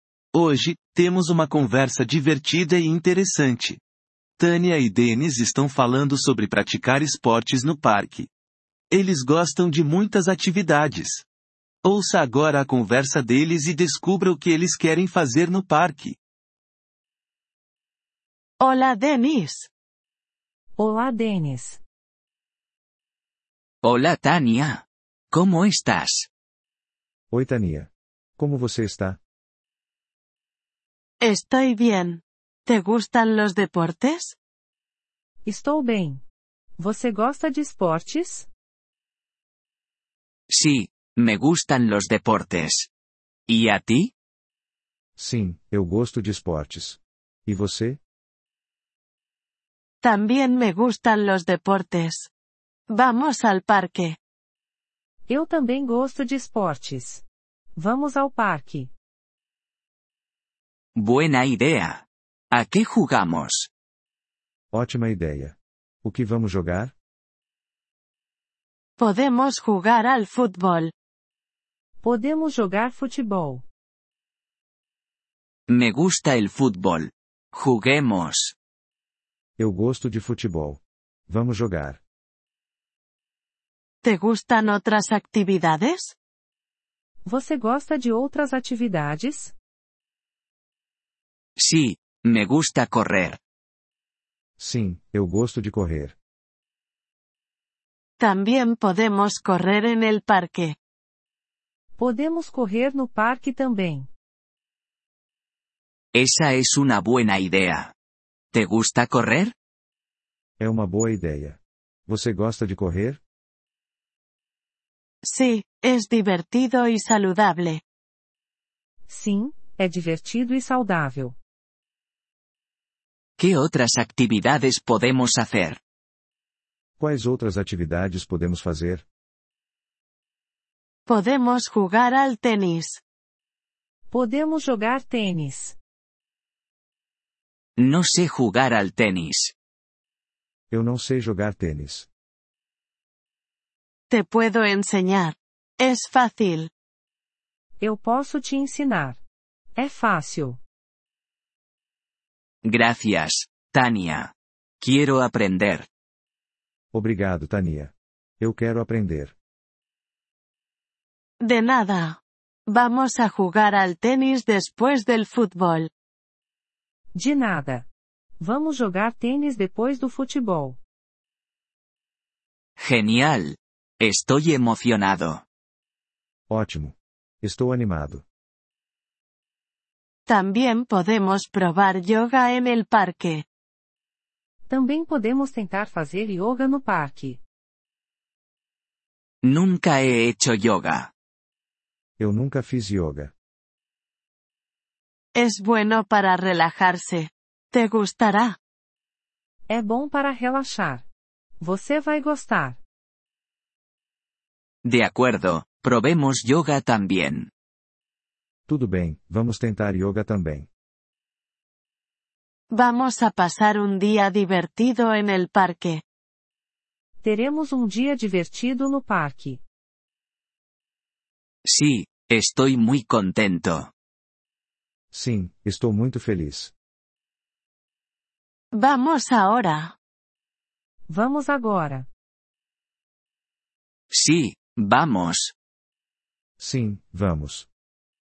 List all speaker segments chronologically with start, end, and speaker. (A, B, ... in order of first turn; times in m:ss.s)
0:00.3-0:03.8 A
0:04.4-0:08.3 A
0:08.9-0:11.2 A
0:11.8-0:16.2 A
0:18.6-0:19.7 B
0:20.8-0:21.8 C
0:23.8-0:26.3 D
0:27.3-0:29.2 E
0:31.2-0:34.4 B
0:35.4-0:36.2 C
0:36.8-0:38.5 C
0:40.5-0:42.9 D
0:43.5-0:44.1 D
0:45.2-0:48.0 E
0:50.0-0:52.3 B
0:52.9-0:54.2 B
0:55.3-0:57.2 C
0:57.8-0:58.9 C
1:01.0-1:03.7 D
1:04.7-1:06.9 E
1:09.0-1:10.9 B
1:12.0-1:13.6 C
1:15.7-1:18.5 D
1:19.6-1:22.0 E
1:24.0-1:26.1 B
1:27.2-1:29.5 C
1:31.6-1:33.4 D
1:34.6-1:36.2 E
1:38.2-1:40.8 B
1:42.0-1:44.1 C
1:46.1-1:47.9 D
1:48.5-1:49.5 D
1:50.6-1:53.2 E
1:55.2-1:57.8 B
1:59.1-2:01.4 C
2:03.4-2:05.8 D
2:07.0-2:09.0 E
2:11.1-2:13.0 B
2:14.1-2:15.8 C
2:17.8-2:19.5 D
2:20.7-2:22.1 E
2:24.1-2:26.7 B
2:27.8-2:29.2 C
2:29.7-2:30.6 C
2:32.6-2:35.9 D
2:36.9-2:39.3 E
2:41.4-2:45.9 B
2:47.1-2:47.8 C
2:48.4-2:50.8 C
2:52.8-2:55.4 D
2:56.5-2:58.2 E
3:00.3-3:03.4 B
3:04.7-3:07.4 C
3:09.4-3:11.1 D
3:12.2-3:13.3 E
3:15.4-3:18.6 B
3:19.7-3:21.0 C
3:21.6-3:22.8 C
3:24.8-3:27.5 D
3:28.7-3:30.7 E
3:32.7-3:36.0 B
3:37.2-3:39.6 C
3:41.6-3:43.9 D
3:45.1-3:46.7 E
3:48.7-3:49.9 B
3:51.1-3:52.1 C
3:54.1-3:55.5 D
3:56.6-3:57.7 E